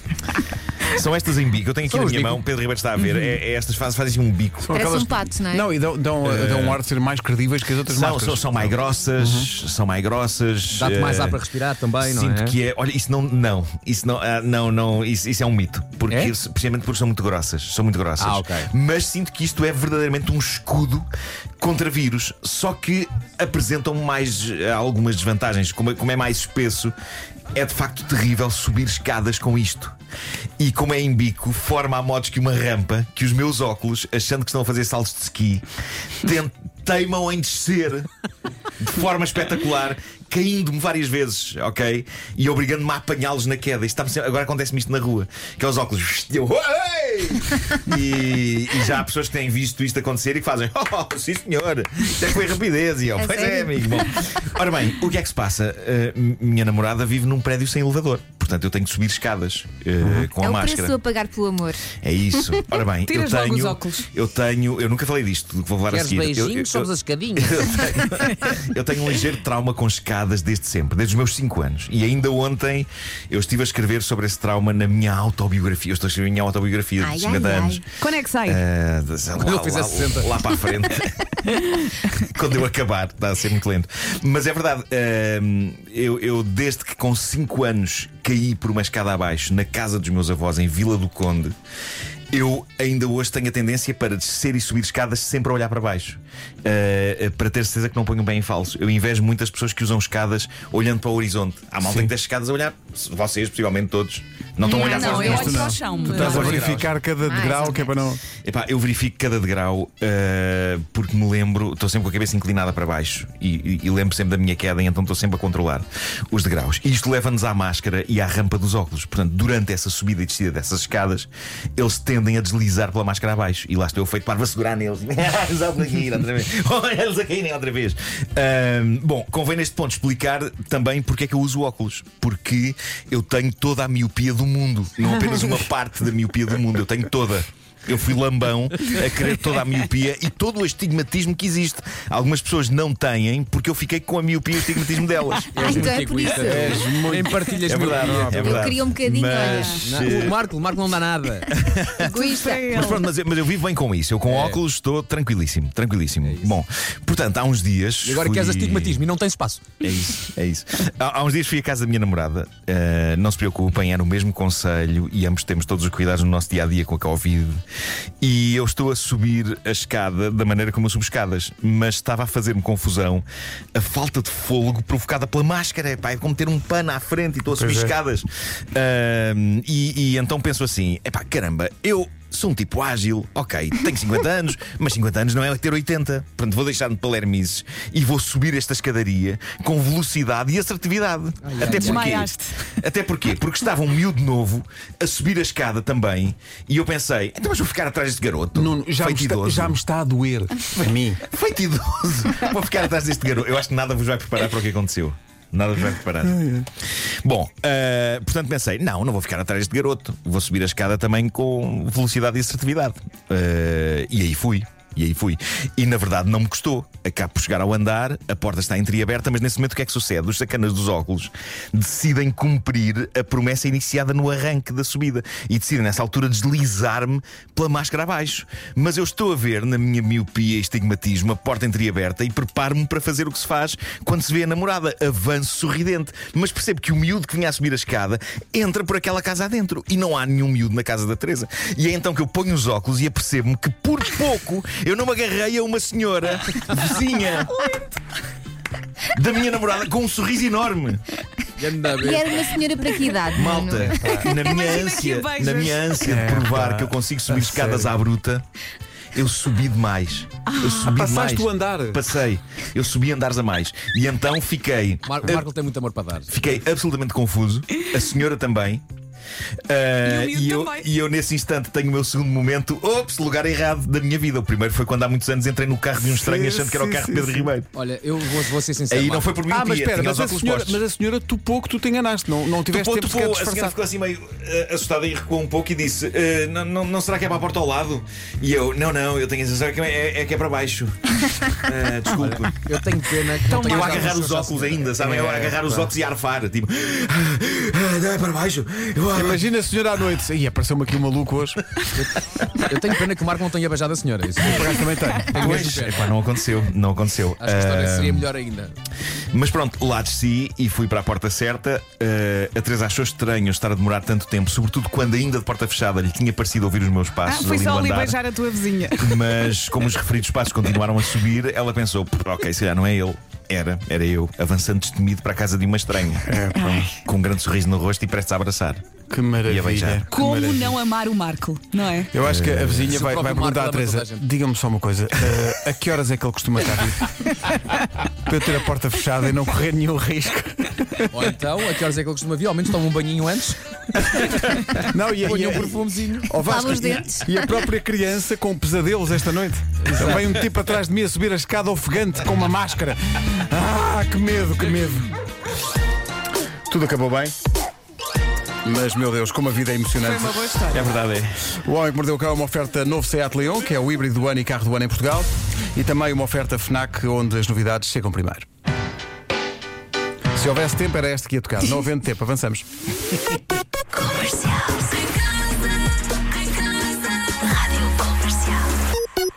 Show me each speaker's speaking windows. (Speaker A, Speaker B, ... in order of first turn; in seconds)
Speaker A: 0.8-4.7, 6.2-6.8, 7.9-11.4, 12.0-21.1, 21.6-26.9, 27.5-30.0, 30.6-35.6, 36.2-38.1, 38.8-61.0, 62.0-77.8, 78.4-81.4, 82.2-91.5, 92.3-106.9, 108.4-145.9, 147.7-150.4, 151.5-152.1, 152.6-159.1, 159.8-167.6, 168.2-199.8, 200.8-247.6, 249.1-251.1, 253.3-258.4, 259.1-265.5, 266.3-268.8, 269.7-277.7, 278.9-280.8, 282.7-292.7, 293.6-299.4, 305.3-308.3, 309.3-318.2, 319.0-326.4, 327.0-328.8, 329.5-330.0, 332.2-333.0, 360.7-361.3
Speaker B: 1.9-2.4, 10.7-12.6, 16.1-16.3, 18.2-18.7, 65.9-68.0, 79.4-80.4, 145.5-148.5, 149.8-151.6, 154.2-154.6, 156.2-156.6, 158.0-159.7, 191.4-192.2, 251.6-252.6, 265.1-266.4, 277.7-279.4, 292.2-294.9, 301.9-306.1, 307.4-308.8, 332.9-334.2, 341.1-346.4, 349.8-350.4
Speaker C: 3.1-3.3, 63.0-64.1, 78.0-78.6, 104.6-106.9, 149.4-149.8, 152.1-153.1, 191.6-192.6, 254.3-255.9, 260.5-260.8, 270.0-270.9, 317.2-319.4, 326.6-327.0, 330.1-332.1, 360.0-360.9
Speaker D: 4.7-9.5, 101.8-102.1, 105.2-108.2, 146.4-148.6, 177.6-178.0, 198.5-201.2, 206.3-206.7, 253.7-254.3, 256.0-257.9, 260.8-262.1, 276.0-277.5, 279.5-283.8, 295.0-295.9, 299.1-301.6, 304.4-305.8, 326.3-326.9, 329.1-330.8, 332.1-337.5, 338.1-341.2, 344.6-355.1, 356.7-357.3, 358.6-360.5, 361.6-368.5, 370.3-372.7
Speaker E: 4.7-5.7, 53.2-53.9, 60.4-61.9, 77.0-77.8, 104.7-106.0, 107.2-108.0, 145.6-146.9, 148.3-150.3, 151.9-152.7, 252.0-254.3, 346.4-347.4, 373.9-375.1, 377.3-378.6